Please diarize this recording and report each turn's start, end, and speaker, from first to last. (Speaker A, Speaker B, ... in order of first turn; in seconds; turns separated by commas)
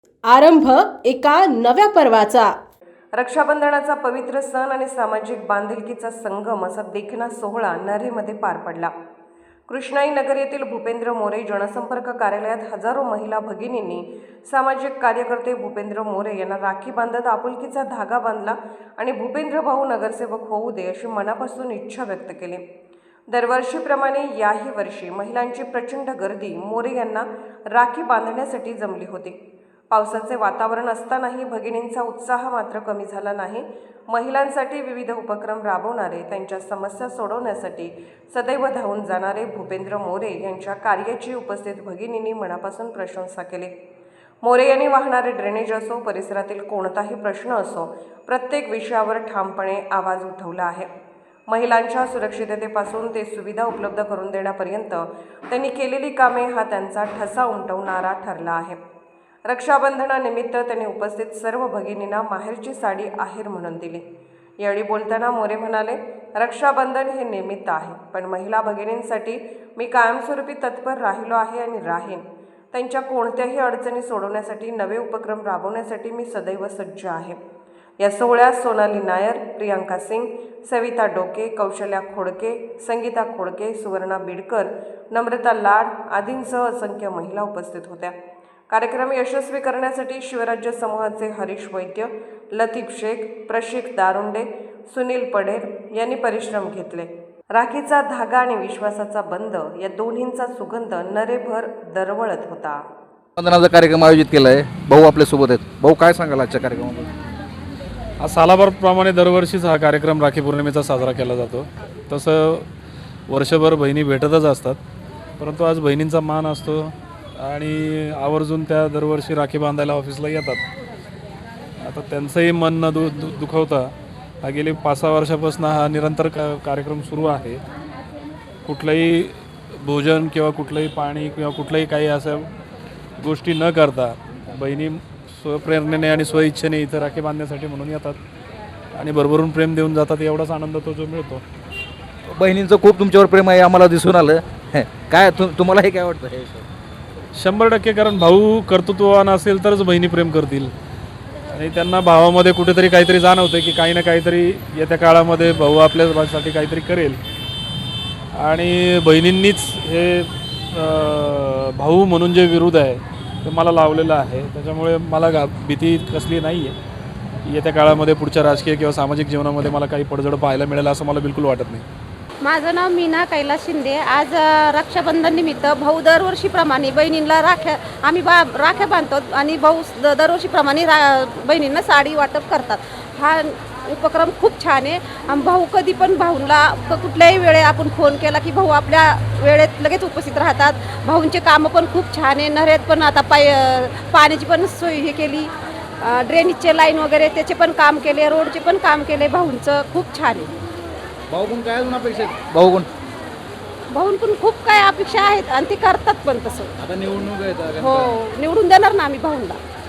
Speaker A: 0.2-2.5, Speaker B: 3.2-8.9, Speaker B: 9.7-22.6, Speaker B: 23.3-29.4, Speaker B: 29.9-43.7, Speaker B: 44.4-50.9, Speaker B: 51.5-58.8, Speaker B: 59.5-64.0, Speaker B: 64.6-77.4, Speaker B: 78.0-88.1, Speaker B: 88.7-102.8, Speaker C: 103.4-107.1, Speaker D: 108.2-112.7, Speaker D: 113.3-114.8, Speaker D: 115.4-120.6, Speaker D: 121.8-123.9, Speaker D: 124.4-127.6, Speaker D: 128.7-132.5, Speaker D: 133.2-138.2, Speaker D: 138.9-141.4, Speaker C: 142.3-146.7, Speaker D: 147.3-150.7, Speaker D: 151.5-157.2, Speaker D: 158.4-166.7, Speaker D: 167.4-171.8, Speaker E: 172.4-200.5, Speaker C: 201.3-202.9, Speaker E: 203.9-206.7, Speaker C: 206.8-208.1, Speaker E: 207.8-209.6